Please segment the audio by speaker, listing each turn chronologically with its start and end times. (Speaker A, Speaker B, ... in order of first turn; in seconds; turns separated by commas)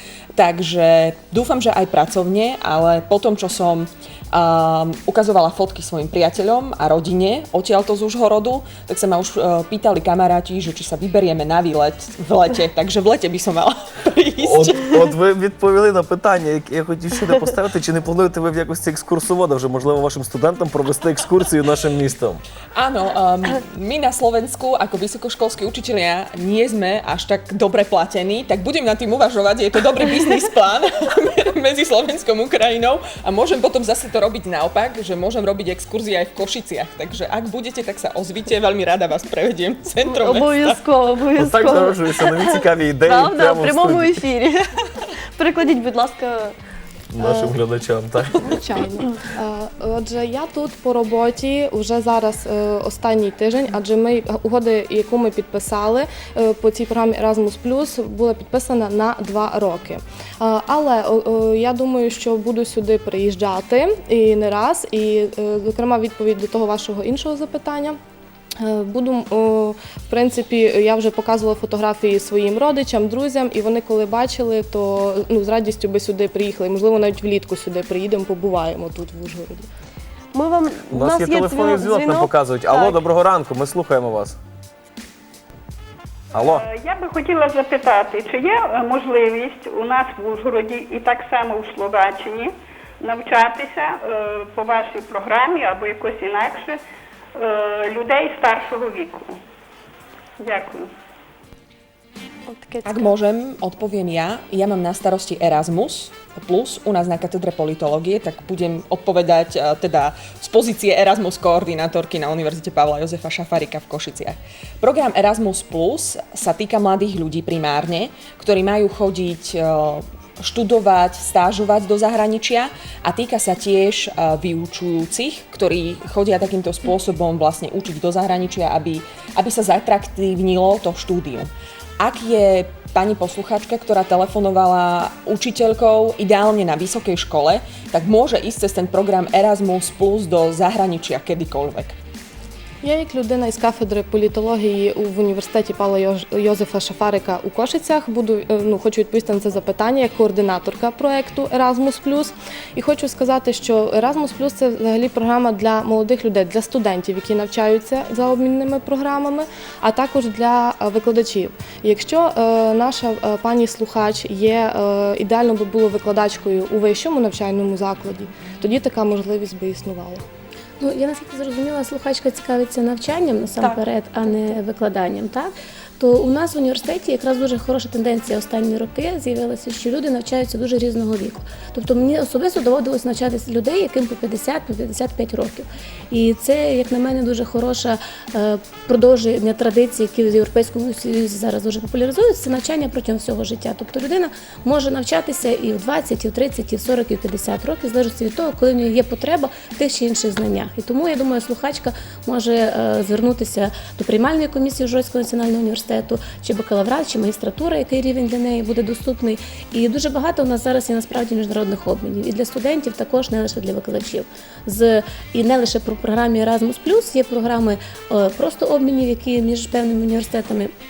Speaker A: 0.3-15.0, Speaker B: 14.4-22.4, Speaker A: 22.8-40.8, Speaker C: 40.0-46.5, Speaker B: 41.4-44.2, Speaker B: 47.1-48.5, Speaker D: 47.2-47.5, Speaker D: 48.4-68.0, Speaker D: 68.6-79.7, Speaker C: 80.3-83.0, Speaker B: 80.9-84.4, Speaker B: 86.3-86.7, Speaker E: 86.4-96.8, Speaker E: 97.3-99.4, Speaker E: 100.4-100.9, Speaker C: 102.5-103.1, Speaker A: 102.8-131.5, Speaker A: 132.0-142.0, Speaker D: 142.8-170.2, Speaker F: 170.8-220.7